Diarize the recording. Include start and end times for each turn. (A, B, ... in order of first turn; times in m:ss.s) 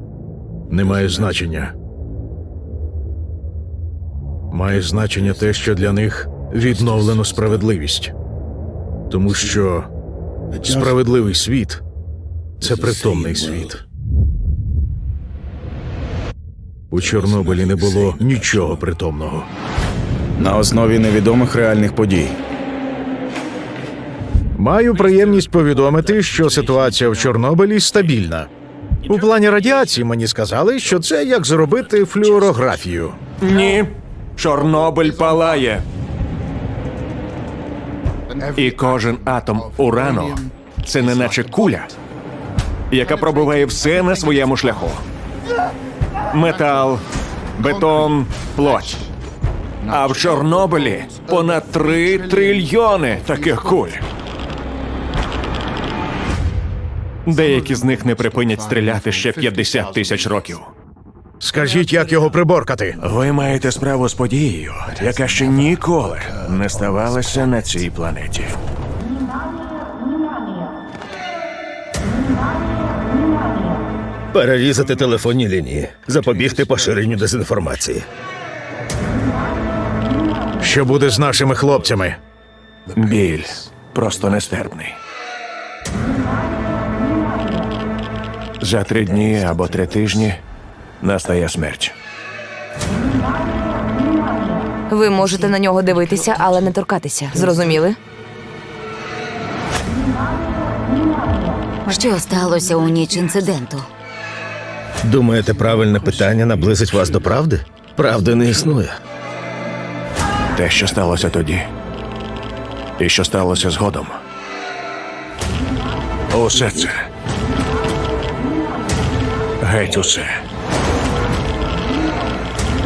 0:00.7-0:01.7 A
0:04.5-0:08.1 A
0:09.1-0:09.9 A
0:10.5-0:11.8 A
0:12.6-0:13.8 A
0:16.9-0:19.5 A
0:20.4-0:22.3 B
0:24.5-0:28.5 A
0:29.0-0:33.2 A
0:33.4-0:35.8 C
0:38.5-0:41.9 C
0:42.9-0:45.0 C
0:46.3-0:47.0 C
0:47.6-0:49.0 C
0:49.8-0:54.0 C
0:57.2-1:00.7 C
1:01.4-1:03.0 A
1:03.0-1:08.6 C
1:14.3-1:18.0 D
1:20.6-1:22.2 A
1:22.9-1:25.0 C
1:28.6-1:30.4 C
1:31.0-1:31.9 C
1:34.9-1:38.0 E
1:41.9-1:43.9 F
1:45.0-1:49.0 D
1:50.5-1:51.6 C
1:53.0-1:54.2 C
1:56.3-1:57.0 C
1:59.6-2:00.4 C